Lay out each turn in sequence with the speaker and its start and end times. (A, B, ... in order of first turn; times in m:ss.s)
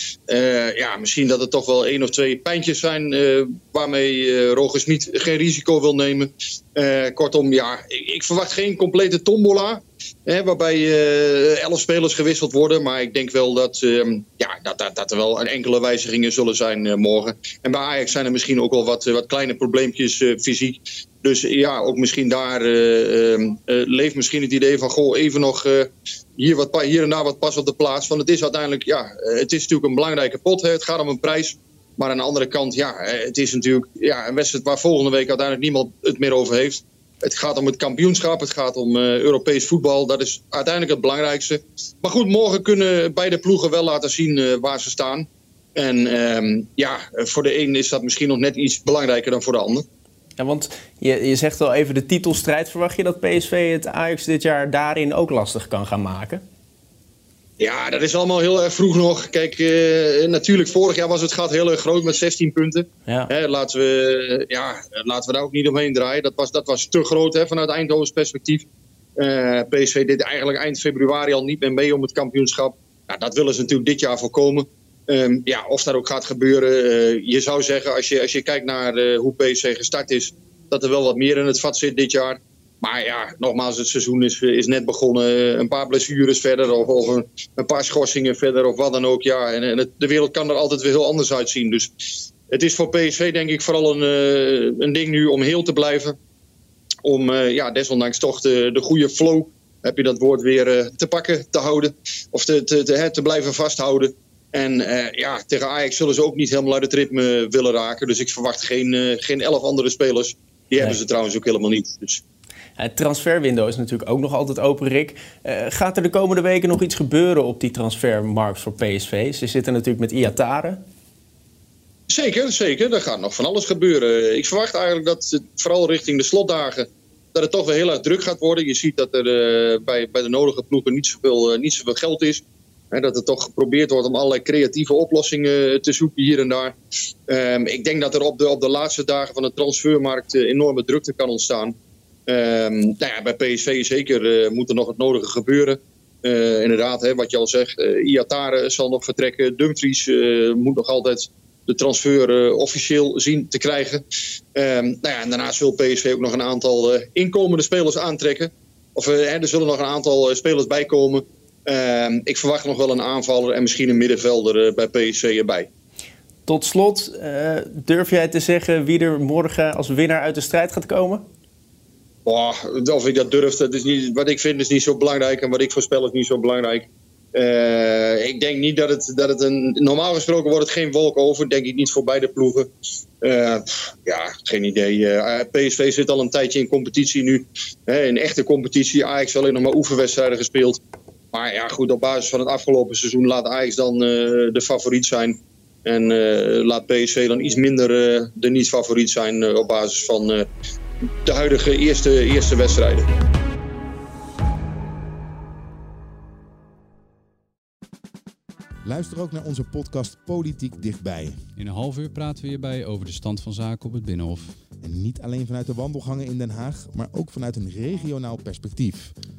0:00.3-0:49.8 A
0:50.4-0:56.4 B
0:57.6-1:08.7 A
1:09.2-1:31.9 A
1:32.5-1:36.2 A
1:37.0-1:52.2 A
1:52.8-2:00.8 B
2:02.1-2:16.8 A
2:17.3-2:21.8 A
2:22.3-2:34.0 A
2:34.6-2:45.7 A
2:46.5-2:51.2 B
2:52.3-3:02.7 A
3:03.2-3:10.8 A
3:11.3-3:20.4 A
3:21.2-3:23.1 A
3:28.8-3:31.4 C
3:31.6-3:34.4 D
3:34.8-3:39.1 C